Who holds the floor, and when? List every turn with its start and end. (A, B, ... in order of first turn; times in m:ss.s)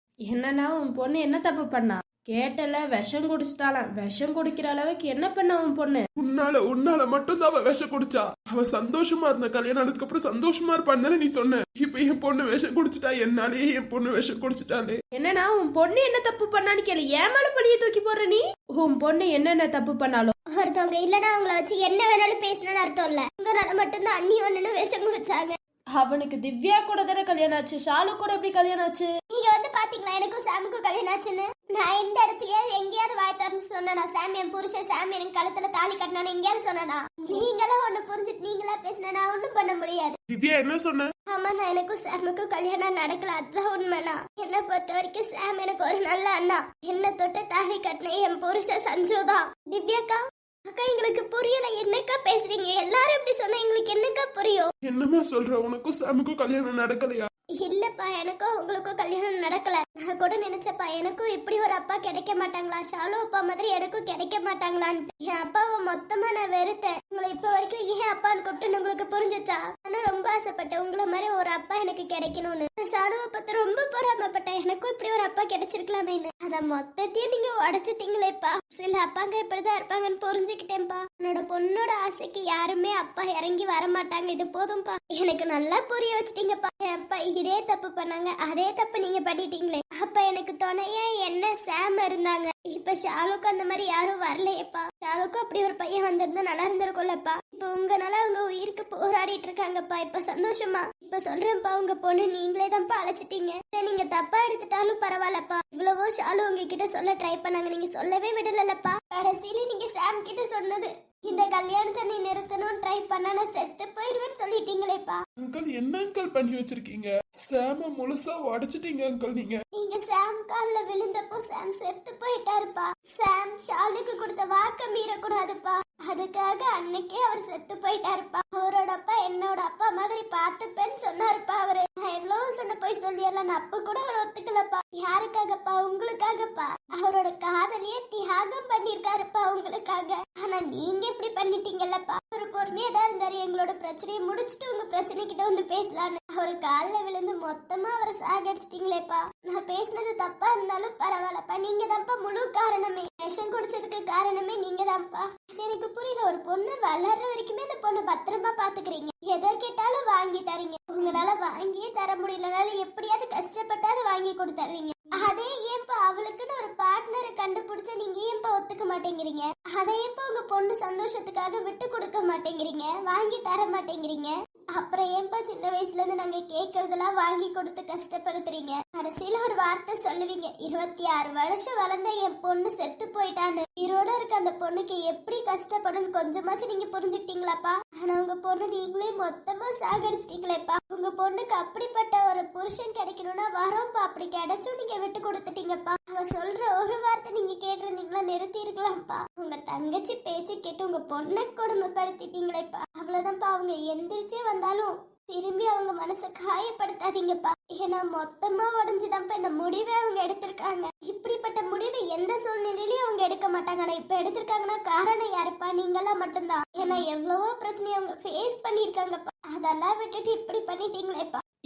0:00.3-0:06.0 A
0:06.2-0:15.0 B
0:15.2-0:20.3 A
0:20.5-0:25.6 C
0:26.0-0:29.1 A
0:29.3-0:40.2 C
0:40.3-0:41.1 B
0:41.3-0:54.7 C
0:54.8-0:57.3 B
0:57.6-1:55.2 C
1:55.4-1:59.6 B
1:59.7-3:41.4 C